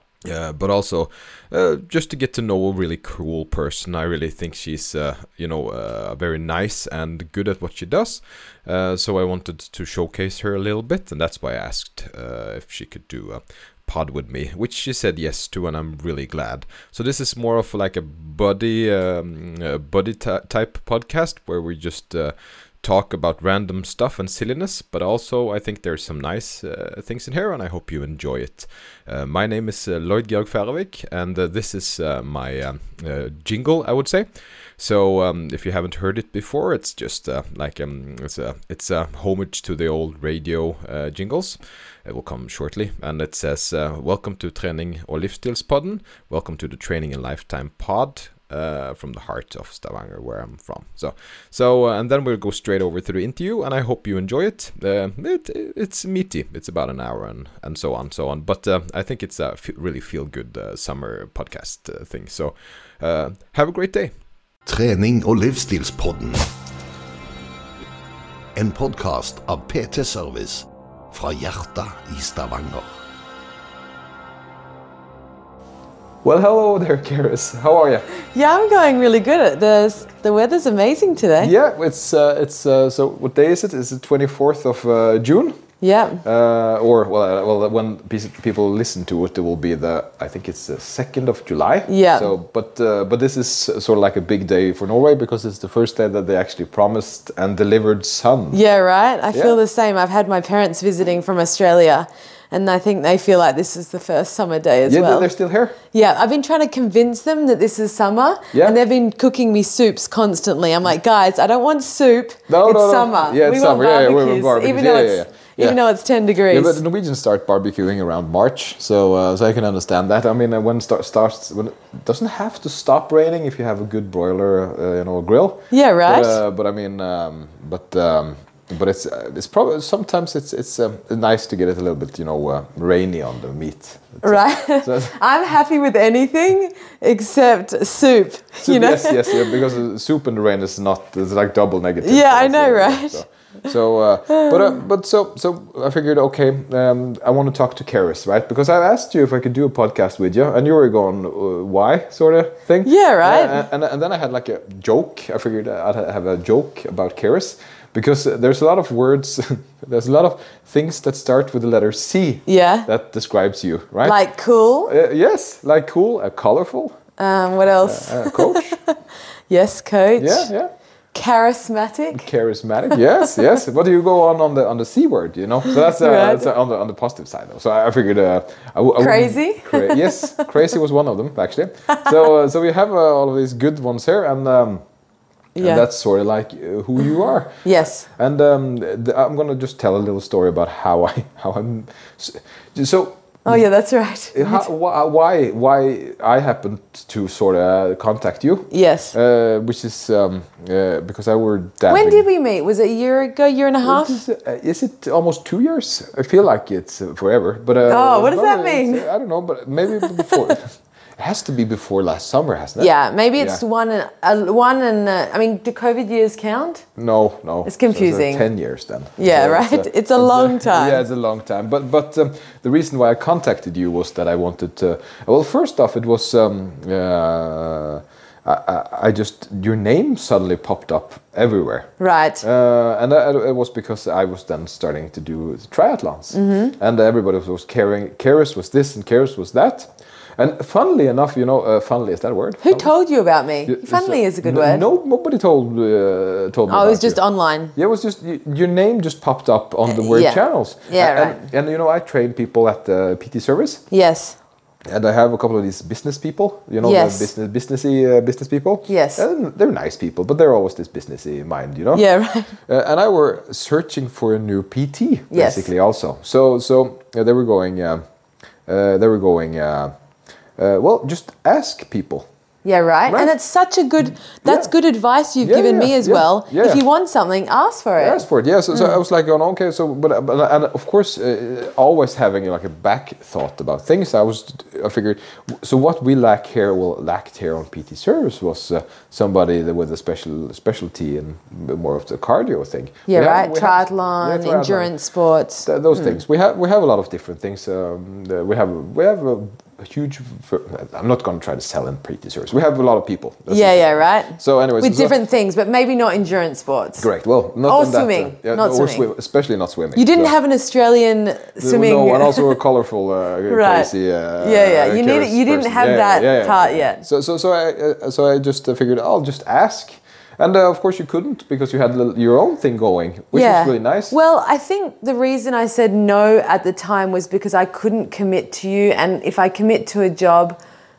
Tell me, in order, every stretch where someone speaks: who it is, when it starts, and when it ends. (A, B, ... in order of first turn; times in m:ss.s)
0:00.2-1:04.1 A
1:04.7-1:06.5 B
1:08.6-1:12.9 B
1:16.2-1:18.1 A
1:18.3-1:21.5 C
1:21.4-1:25.6 A
1:25.8-1:26.2 C
1:26.2-1:38.6 A
1:31.9-1:32.3 C
1:38.5-1:45.3 C
1:39.3-1:39.6 A
1:44.9-1:45.8 A
1:45.9-1:56.8 C
1:48.5-1:48.8 A
1:52.5-1:55.8 A
1:56.5-2:15.1 A
2:05.7-2:06.4 C
2:14.2-2:19.6 C
2:18.6-2:44.2 A
2:22.0-2:23.2 C
2:24.3-2:24.8 C
2:32.8-2:33.6 C
2:42.5-2:42.9 C
2:44.0-2:44.9 C
2:44.9-2:47.0 A
2:47.2-2:49.0 C
2:47.8-2:48.8 A
2:49.5-2:50.5 C
2:50.2-2:50.7 A
2:51.1-2:52.3 C
2:52.1-3:04.8 A
2:52.9-2:53.6 C
2:55.7-2:56.5 C
2:59.0-3:00.5 C
3:05.6-3:05.8 C
3:05.6-3:13.7 A
3:07.6-3:08.0 C
3:13.4-3:14.7 C
3:14.3-3:22.3 A
3:18.7-3:19.1 C
3:21.9-3:24.2 C
3:23.8-3:33.6 A
3:27.9-3:29.1 C
3:30.0-3:30.5 C
3:32.8-3:36.8 C
3:37.0-3:51.9 A
3:37.6-3:38.5 C
3:39.2-3:41.0 C
3:52.0-3:52.4 C
3:52.4-4:02.9 A
3:56.3-3:56.8 C
4:02.6-4:04.8 C
4:03.7-4:07.2 A
4:06.7-4:07.7 C
4:07.8-4:13.8 A
4:09.9-4:11.4 C
4:13.9-4:14.4 C
4:14.9-4:22.1 A
4:16.8-4:17.3 C
4:18.9-4:19.2 C
4:21.9-4:22.5 C
4:22.6-4:28.0 A
4:25.3-4:25.7 C
4:28.7-4:29.9 A
4:30.6-4:32.3 A
4:32.6-4:39.0 C
4:33.1-4:33.4 A
4:34.2-4:34.7 A
4:35.4-4:36.8 A
4:38.0-4:54.9 A
4:53.1-4:56.2 C
4:55.6-5:05.2 A
5:03.5-5:07.1 C
5:07.0-5:10.3 A
5:07.6-5:09.1 C
5:10.0-5:12.6 C
5:11.6-5:24.2 A
5:13.5-5:17.0 C
5:23.3-5:30.6 C